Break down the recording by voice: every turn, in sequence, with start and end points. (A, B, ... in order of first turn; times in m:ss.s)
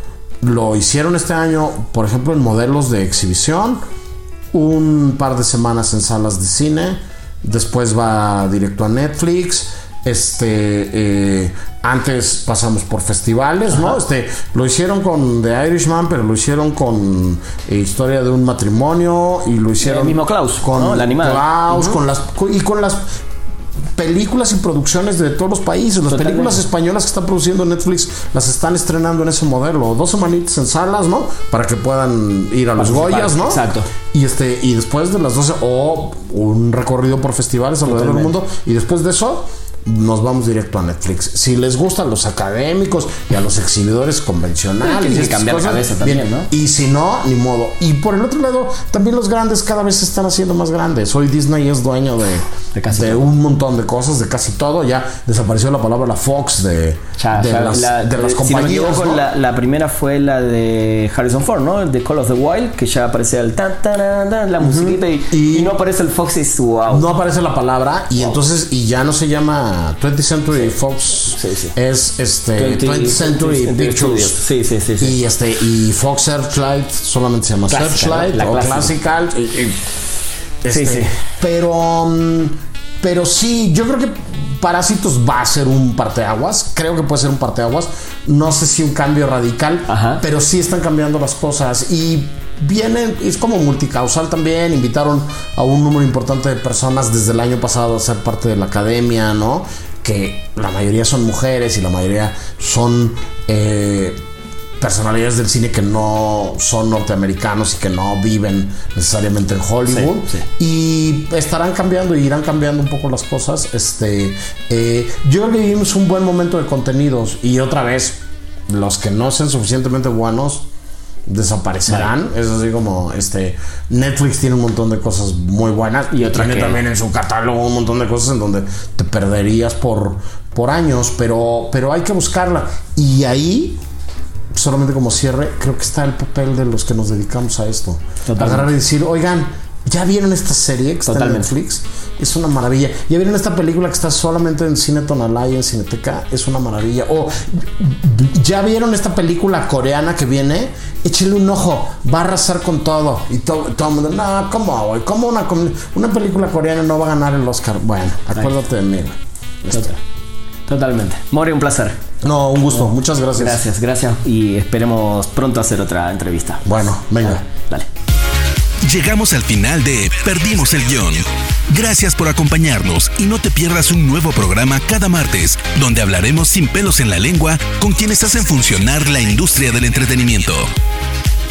0:00.4-0:03.8 A
0:04.5-0:23.0 A
0:19.8-0:22.0 B
0:23.9-0:59.2 A
0:26.1-0:26.6 B
0:32.8-0:33.9 B
0:37.8-0:38.3 B
0:44.8-0:46.5 B
0:52.7-0:53.2 B
0:57.2-1:07.0 B
1:04.6-1:05.7 A
1:06.9-1:14.4 A
1:11.3-1:11.7 B
1:12.6-1:15.2 B
1:15.0-1:19.8 A
1:17.7-1:18.9 B
1:20.6-1:44.2 A
1:20.7-1:21.2 B
1:29.9-1:30.2 B
1:44.8-2:00.6 A
1:49.9-1:50.4 B
2:01.2-2:13.8 A
2:06.1-2:06.8 B
2:14.5-2:40.0 A
2:18.2-2:18.7 B
2:21.1-2:21.5 B
2:40.7-2:42.0 B
2:42.2-2:43.6 A
2:43.4-2:46.6 B
2:46.6-2:47.4 A
2:47.2-2:47.9 B
2:48.8-3:00.7 C